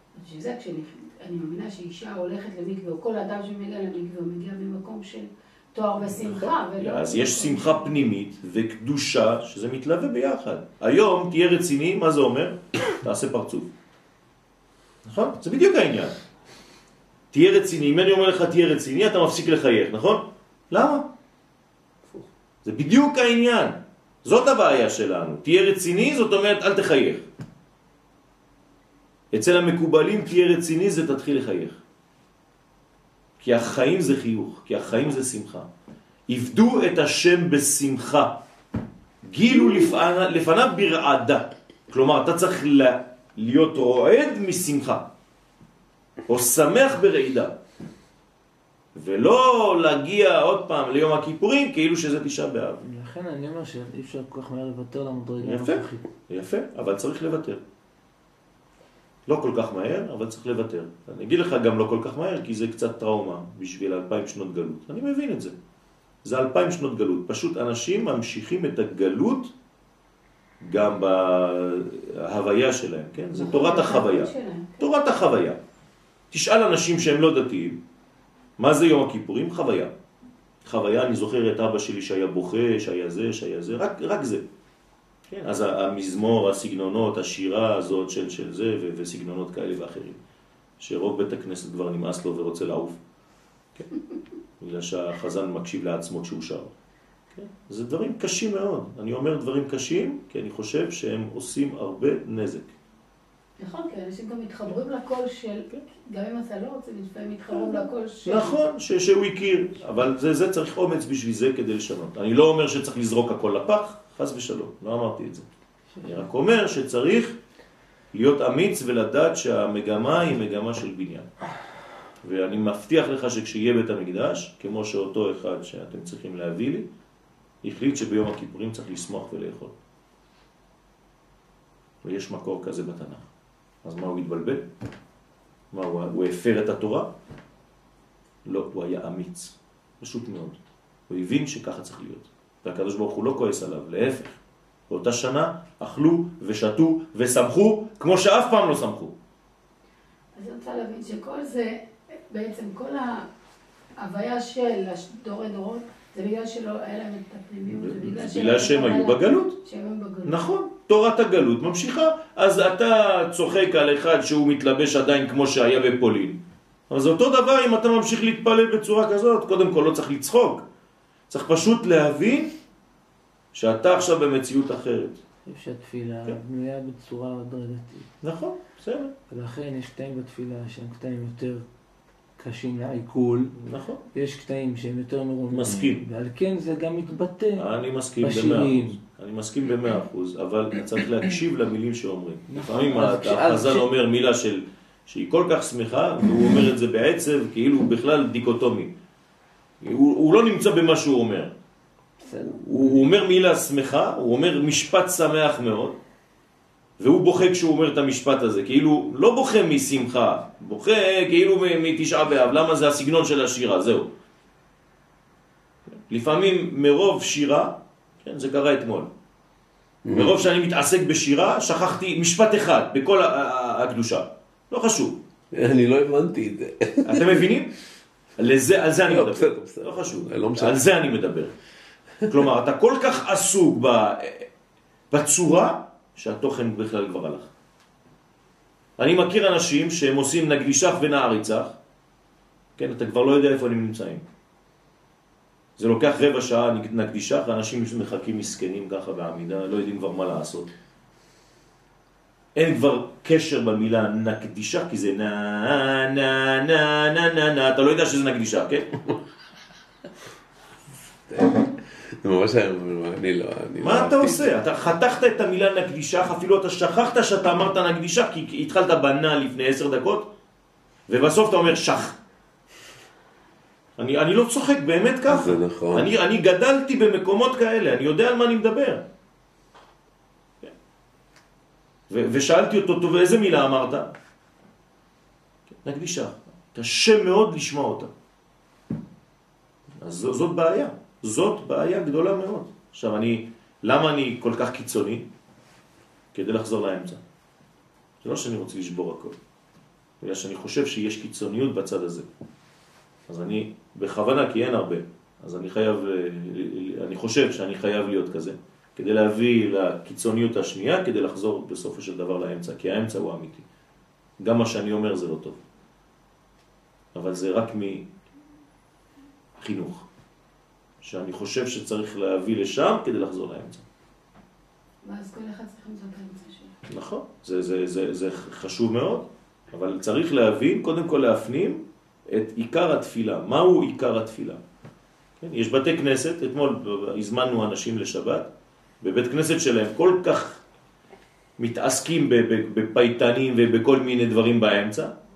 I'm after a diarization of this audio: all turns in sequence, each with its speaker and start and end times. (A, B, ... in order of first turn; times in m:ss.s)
0:00.2-0:08.1 A
0:06.0-0:13.7 B
0:15.0-0:16.2 B
0:17.3-0:21.0 B
0:22.6-0:27.3 B
0:29.3-0:31.8 B
0:33.4-0:35.7 B
0:36.3-0:38.4 B
0:39.2-0:45.1 B
0:46.3-0:47.5 B
0:48.9-0:52.8 B
0:52.8-0:56.1 C
0:55.4-0:57.6 B
0:59.3-1:05.5 B
1:06.2-1:09.5 B
1:10.6-1:15.6 B
1:13.3-1:14.8 A
1:16.3-1:17.8 B
1:18.6-1:19.9 B
1:20.6-1:24.4 B
1:25.3-1:30.2 B
1:30.8-1:33.0 B
1:34.6-1:36.7 B
1:37.3-1:42.7 B
1:43.6-1:48.6 A
1:47.5-1:55.4 B
1:56.0-1:57.4 B
1:58.1-2:01.3 B
2:02.2-2:06.9 B
2:07.6-2:09.7 B
2:12.0-2:13.3 B
2:13.8-2:14.6 B
2:15.7-2:17.1 B
2:18.4-2:29.1 B
2:30.3-2:33.3 A
2:34.0-2:40.4 A
2:37.7-2:39.5 B
2:40.2-2:50.6 B
2:51.3-2:52.5 B
2:53.5-2:55.2 B
2:55.4-2:58.1 C
2:58.2-2:59.1 B
2:59.3-3:01.6 C
3:02.4-3:03.5 C
3:03.5-3:04.0 B
3:04.1-3:07.6 C
3:05.5-3:06.0 B
3:07.6-3:18.9 B
3:08.2-3:09.0 C
3:12.5-3:13.9 C
3:19.8-3:21.5 B
3:22.2-3:23.0 C
3:22.6-3:26.0 B
3:27.0-3:34.1 B
3:36.1-3:39.1 B
3:40.0-3:40.5 D
3:40.1-3:45.2 B
3:45.5-3:47.5 D
3:47.0-3:47.7 B
3:48.4-3:51.5 B
3:49.0-3:50.8 D
3:52.2-3:54.5 B
3:55.1-3:57.5 B
3:59.0-4:01.8 B
4:02.8-4:04.2 B
4:05.8-4:10.7 B
4:12.5-4:19.1 B
4:21.3-4:24.6 D
4:23.8-4:30.3 B
4:31.1-4:32.2 B
4:34.0-4:39.0 B
4:35.3-4:36.2 D
4:42.1-4:44.1 B
4:45.8-4:48.1 B
4:50.0-4:55.3 B
4:56.3-4:57.2 B
4:58.2-4:59.4 B
5:00.2-5:02.3 B
5:03.3-5:13.6 B
5:14.4-5:15.6 B
5:17.1-5:18.1 B
5:19.6-5:20.0 B
5:21.0-5:23.8 B
5:25.0-5:26.7 A
5:26.9-5:34.6 B
5:35.4-5:38.5 B
5:39.0-5:40.6 B
5:41.6-5:45.1 B